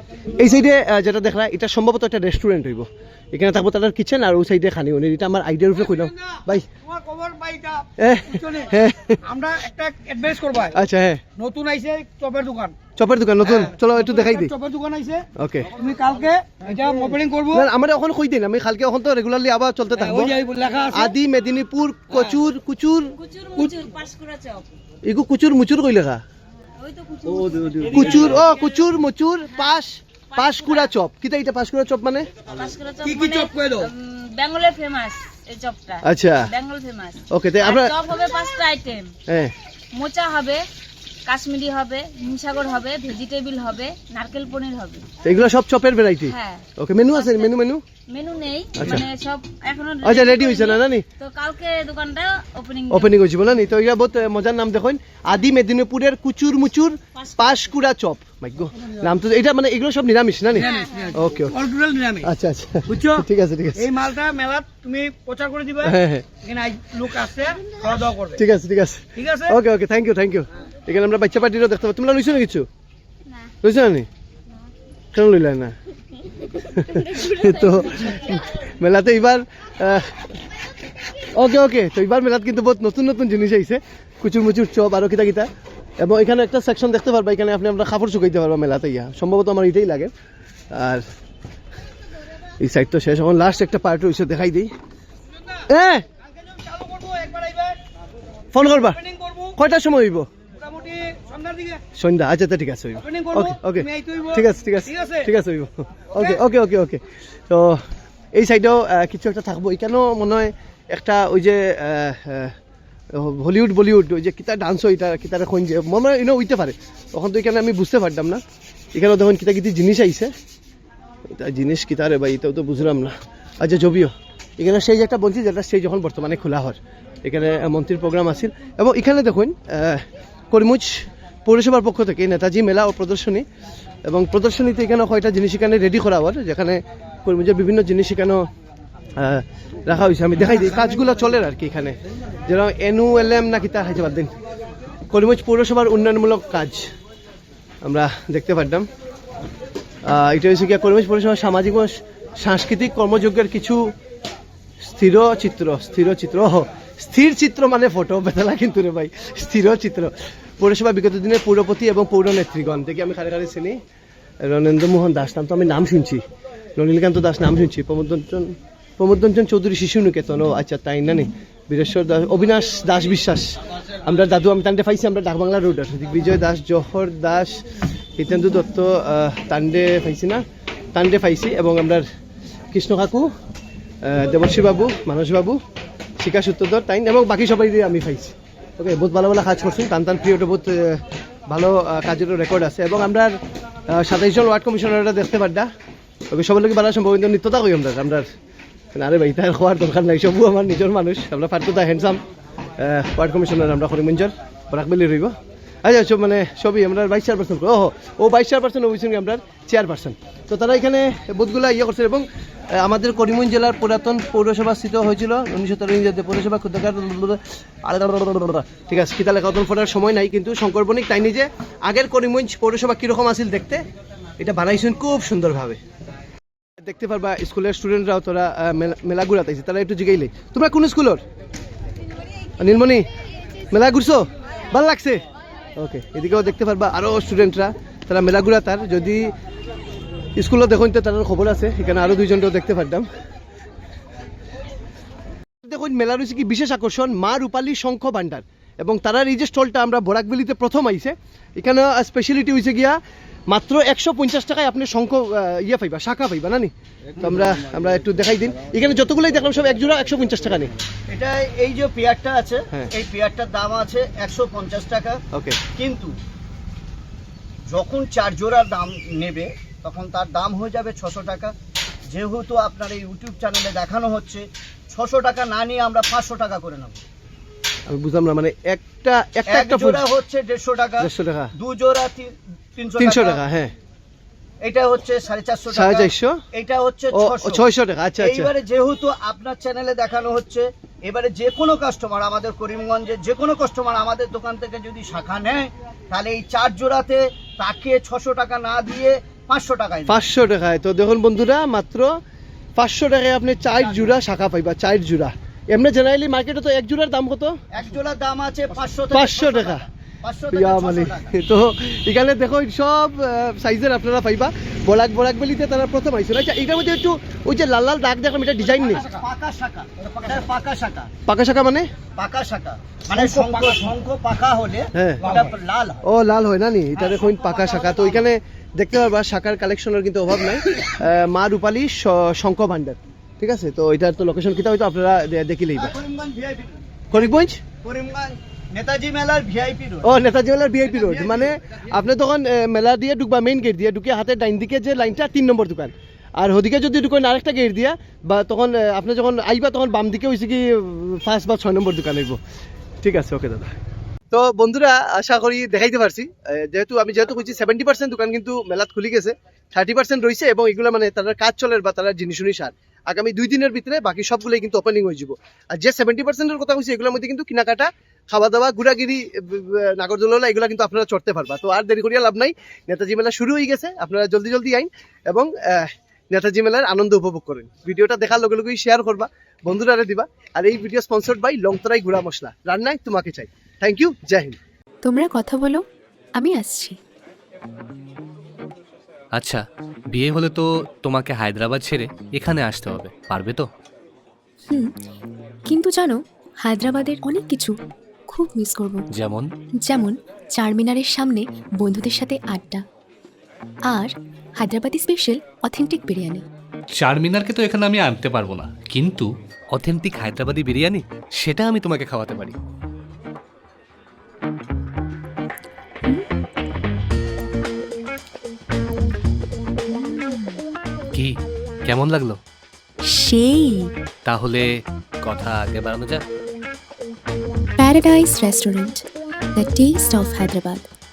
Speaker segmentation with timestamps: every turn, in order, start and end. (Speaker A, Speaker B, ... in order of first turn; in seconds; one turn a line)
Speaker A: 0.4-6.7
Speaker B: 6.8-8.7
Speaker A: 8.0-9.2
Speaker B: 9.2-10.8
Speaker A: 10.7-11.2
Speaker B: 11.4-12.8
Speaker A: 13.0-14.5
Speaker B: 13.4-17.7
Speaker A: 15.4-15.7
Speaker A: 17.5-20.4
Speaker B: 20.0-21.2
Speaker A: 20.9-23.2
Speaker B: 22.1-22.4
Speaker C: 23.2-24.7
Speaker A: 25.1-26.2
Speaker C: 26.8-28.3
Speaker B: 27.4-28.6
Speaker A: 27.9-32.3
Speaker C: 30.3-30.9
Speaker C: 32.5-39.1
Speaker B: 33.0-33.9
Speaker A: 36.0-36.5
Speaker A: 37.3-37.9
Speaker A: 39.3-39.5
Speaker C: 40.0-40.6
Speaker C: 41.3-45.1
Speaker A: 45.2-47.8
Speaker C: 46.3-47.6
Speaker C: 48.1-53.2
Speaker A: 48.8-49.1
Speaker A: 50.0-51.0
Speaker A: 52.9-61.6
Speaker C: 57.2-57.6
Speaker B: 60.5-62.3
Speaker C: 60.6-61.2
Speaker A: 62.2-63.9
Speaker B: 62.9-63.2
Speaker B: 63.8-68.4
Speaker A: 65.8-66.3
Speaker A: 68.4-72.7
Speaker B: 69.2-69.6
Speaker A: 73.6-74.1
Speaker A: 75.1-75.8
Speaker A: 76.7-80.2
Speaker A: 81.3-85.5
Speaker A: 86.0-90.1
Speaker A: 90.7-91.0
Speaker A: 92.6-94.7
Speaker A: 95.7-96.0
Speaker B: 96.3-97.8
Speaker A: 98.5-99.0
Speaker B: 98.9-99.5
Speaker A: 99.6-100.3
Speaker B: 100.6-101.8
Speaker A: 102.0-107.8
Speaker B: 103.0-105.3
Speaker B: 106.1-106.4
Speaker A: 108.3-112.5
Speaker A: 113.1-118.4
Speaker A: 118.9-120.3
Speaker A: 121.3-133.4
Speaker A: 134.1-138.5
Speaker A: 139.2-144.3
Speaker A: 145.1-146.9
Speaker A: 147.8-148.9
Speaker A: 150.1-153.8
Speaker A: 154.8-163.8
Speaker A: 164.4-166.2
Speaker A: 166.8-177.6
Speaker A: 178.2-182.1
Speaker A: 182.7-183.3
Speaker A: 184.0-185.6
Speaker A: 186.2-193.3
Speaker A: 193.9-195.7
Speaker A: 196.3-198.3
Speaker A: 198.9-202.2
Speaker A: 202.8-223.8
Speaker A: 224.4-225.8
Speaker A: 226.8-231.2
Speaker A: 232.6-233.1
Speaker A: 233.7-235.2
Speaker A: 235.8-239.3
Speaker A: 240.4-243.1
Speaker A: 245.6-253.0
Speaker A: 253.5-260.7
Speaker D: 261.1-266.1
Speaker A: 265.3-265.6
Speaker D: 267.7-271.5
Speaker D: 272.1-277.0
Speaker A: 277.9-280.0
Speaker D: 279.5-283.4
Speaker A: 281.0-281.5
Speaker A: 283.0-283.7
Speaker D: 284.6-287.6
Speaker A: 285.7-286.4
Speaker A: 287.1-288.5
Speaker D: 288.2-300.2
Speaker A: 300.1-302.2
Speaker A: 302.8-307.6
Speaker D: 303.8-304.1
Speaker D: 307.7-311.3
Speaker A: 309.1-309.9
Speaker A: 310.5-319.0
Speaker D: 318.6-321.1
Speaker A: 321.3-321.9
Speaker D: 322.2-326.0
Speaker A: 323.2-323.4
Speaker B: 323.3-323.9
Speaker A: 324.9-325.3
Speaker B: 325.2-325.5
Speaker A: 326.0-336.0
Speaker D: 327.0-328.3
Speaker D: 335.8-340.2
Speaker A: 337.1-337.6
Speaker A: 340.0-352.4
Speaker D: 340.9-341.5
Speaker A: 353.0-353.7
Speaker A: 354.3-384.6
Speaker E: 385.0-385.8
Speaker E: 386.4-387.0
Speaker F: 389.4-393.7
Speaker E: 394.7-394.9
Speaker E: 395.7-397.8
Speaker E: 398.3-399.1
Speaker F: 399.1-399.5
Speaker E: 399.8-402.8
Speaker E: 403.9-406.4
Speaker F: 407.0-412.6
Speaker E: 419.9-420.6
Speaker F: 421.9-422.4
Speaker E: 423.1-423.9
Speaker F: 424.3-424.7
Speaker F: 425.2-426.2
Speaker E: 427.8-429.0
Speaker E: 429.6-430.9